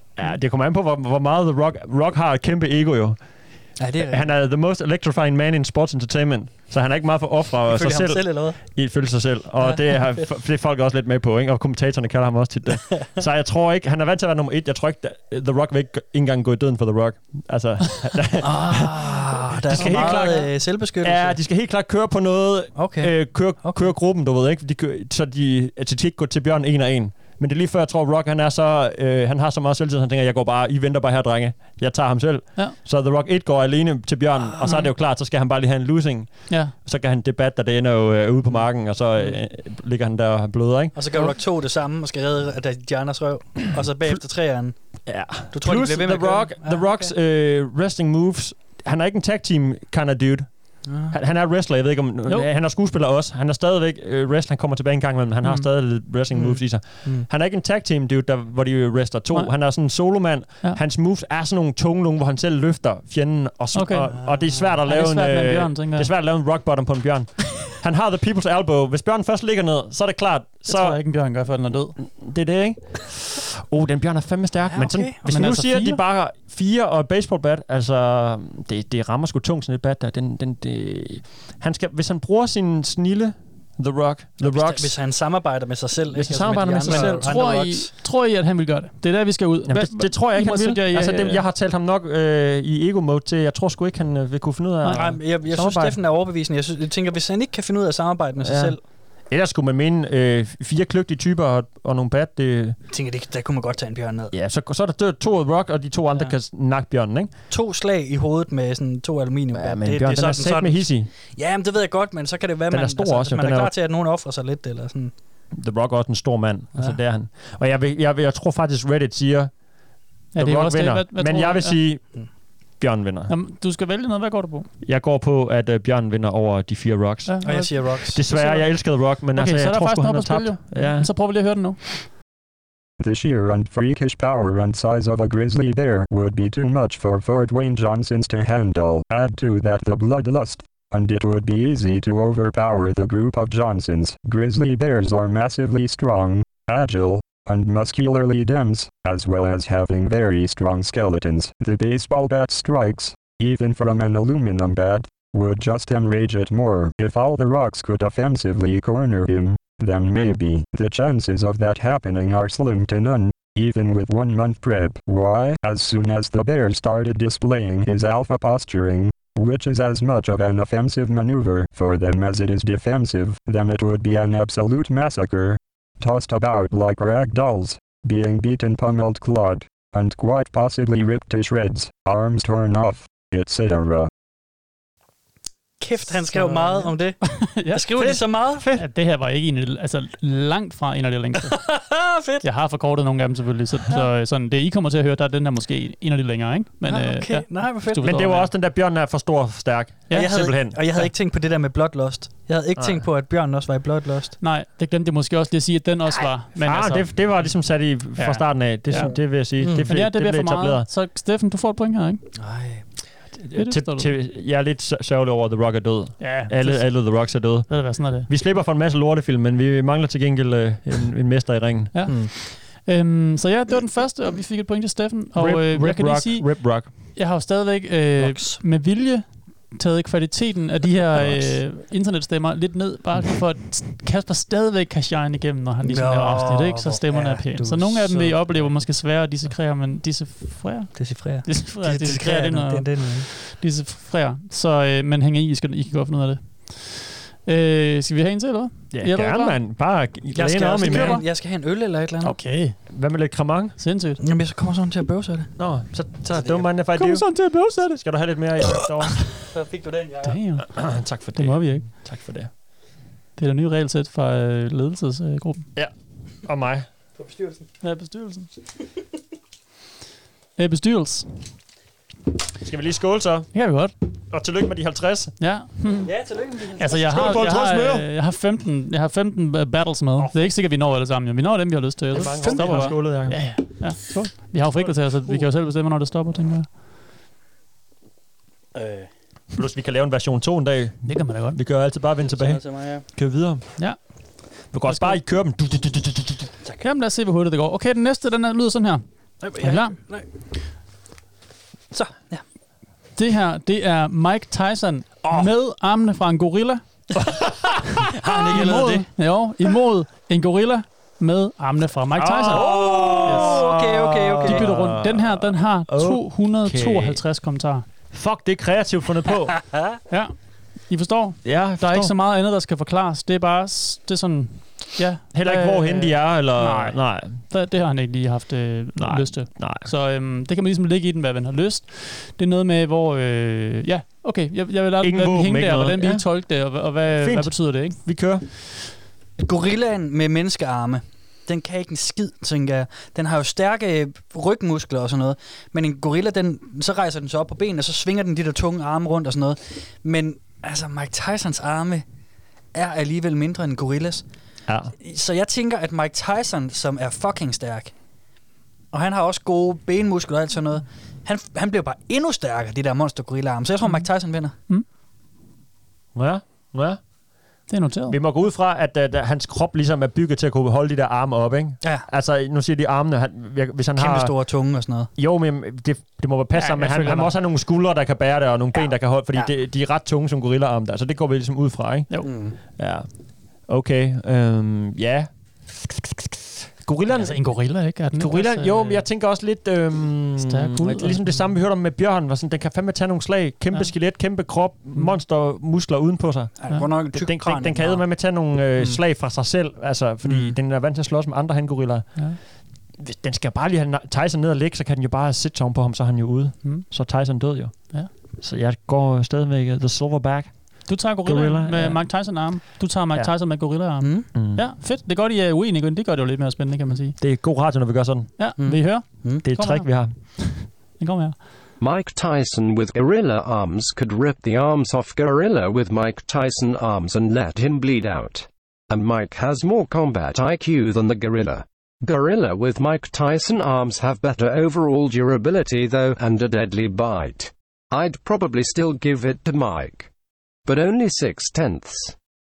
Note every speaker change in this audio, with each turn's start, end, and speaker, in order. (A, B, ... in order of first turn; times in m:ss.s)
0:00.1-0:19.1 A
0:03.8-0:04.2 B
0:07.7-0:08.8 B
0:09.6-0:10.3 B
0:18.4-0:21.4 B
0:19.7-0:41.0 A
0:19.8-0:20.2 C
0:22.7-0:23.9 B
0:34.5-0:34.8 B
0:38.5-0:39.3 B
0:40.9-0:47.1 B
0:45.0-1:11.0 A
0:50.8-0:51.2 B
0:55.4-0:55.7 C
0:56.3-0:57.3 B
0:59.3-1:00.0 C
1:03.7-1:06.1 C
1:04.2-1:04.8 B
1:10.6-1:12.0 C
1:12.0-1:25.1 A
1:14.7-1:15.2 B
1:15.2-1:16.0 C
1:24.4-1:27.9 B
1:26.1-1:27.4 A
1:26.8-1:31.4 C
1:29.7-1:36.0 A
1:34.8-1:38.8 B
1:38.4-1:42.8 A
1:42.9-1:44.3 B
1:44.3-1:47.3 A
1:47.5-1:55.2 B
1:49.5-1:51.1 A
1:52.7-1:53.7 A
1:55.5-2:03.3 A
1:56.7-1:57.0 B
2:00.3-2:01.8 C
2:03.3-2:04.7 C
2:04.8-2:11.1 A
2:07.3-2:12.1 C
2:07.4-2:08.2 B
2:13.0-3:04.1 D
3:05.8-3:08.7 B
3:06.1-3:11.8 C
3:08.0-3:08.8 A
3:11.6-3:12.4 B
3:12.4-3:18.5 C
3:16.8-3:18.4 B
3:18.0-3:21.1 A
3:20.1-3:20.3 C
3:20.1-3:24.4 B
3:22.8-3:23.0 A
3:24.4-3:27.5 C
3:26.6-3:30.9 A
3:28.1-3:32.3 C
3:28.9-3:29.9 B
3:32.4-3:32.9 B
3:33.4-3:42.2 A
3:33.5-3:34.1 C
3:36.2-3:38.3 C
3:41.9-4:09.6 C
3:42.0-3:42.4 B
3:45.4-3:46.9 A
3:48.2-3:48.6 B
3:55.8-3:58.8 B
4:00.9-4:03.3 B
4:08.9-4:11.2 A
4:10.3-4:12.4 B
4:10.8-4:11.3 C
4:12.2-4:13.0 C
4:12.9-4:13.8 A
4:13.8-4:14.2 C
4:14.2-4:16.7 B
4:15.6-4:19.3 A
4:16.9-4:18.0 C
4:19.4-4:20.4 B
4:20.2-4:21.9 C
4:20.7-4:22.5 A
4:23.4-4:25.7 C
4:26.4-4:26.8 A
4:27.2-4:27.7 B
4:27.8-4:28.5 C
4:30.6-4:31.3 C
4:32.6-4:33.6 A
4:33.5-4:33.9 C
4:34.3-4:35.3 A
4:35.4-4:36.1 C
4:36.0-4:37.4 B
4:36.8-4:46.7 C
4:37.0-4:38.1 A
4:40.2-4:40.4 A
4:42.1-4:43.6 A
4:42.2-4:43.2 B
4:48.7-4:49.1 B
4:49.5-4:54.1 A
4:51.0-4:51.6 C
4:52.2-4:53.0 B
4:53.8-4:55.2 C
4:54.7-4:56.5 A
4:56.8-5:00.0 C
4:59.4-5:00.5 B
5:01.9-5:02.4 B
5:03.2-5:07.0 C
5:07.2-5:07.7 A
5:08.0-5:12.7 C
5:08.1-5:09.1 B
5:12.2-5:17.2 A
5:12.5-5:14.7 B
5:13.2-5:13.6 C
5:14.4-5:17.9 C
5:18.1-5:19.9 A
5:20.1-5:38.0 C
5:21.4-5:22.1 A
5:25.3-5:27.4 A
5:29.0-5:29.9 A
5:35.0-5:38.4 A
5:39.4-5:52.0 B
5:52.7-5:54.3 B
5:54.7-5:54.9 A
5:55.0-5:57.9 B
5:58.9-6:04.6 B
6:06.1-6:07.0 A
6:07.7-6:08.2 C
6:08.1-6:26.2 A
6:11.8-6:12.1 B
6:14.0-6:15.1 B
6:16.5-6:17.4 C
6:18.8-6:19.5 B
6:22.2-6:22.6 B
6:26.8-6:52.6 A
6:27.1-6:29.1 C
6:30.4-6:31.4 C
6:36.6-6:39.0 B
6:40.2-6:40.6 B
6:46.6-6:46.9 C
6:50.9-6:57.2 C
6:54.0-6:54.3 B
6:54.3-6:54.6 A
6:57.2-6:58.3 A
6:58.4-7:01.4 C
6:58.6-6:59.4 B
6:59.4-7:00.2 A
7:01.8-7:20.1 E
7:20.6-7:22.2 E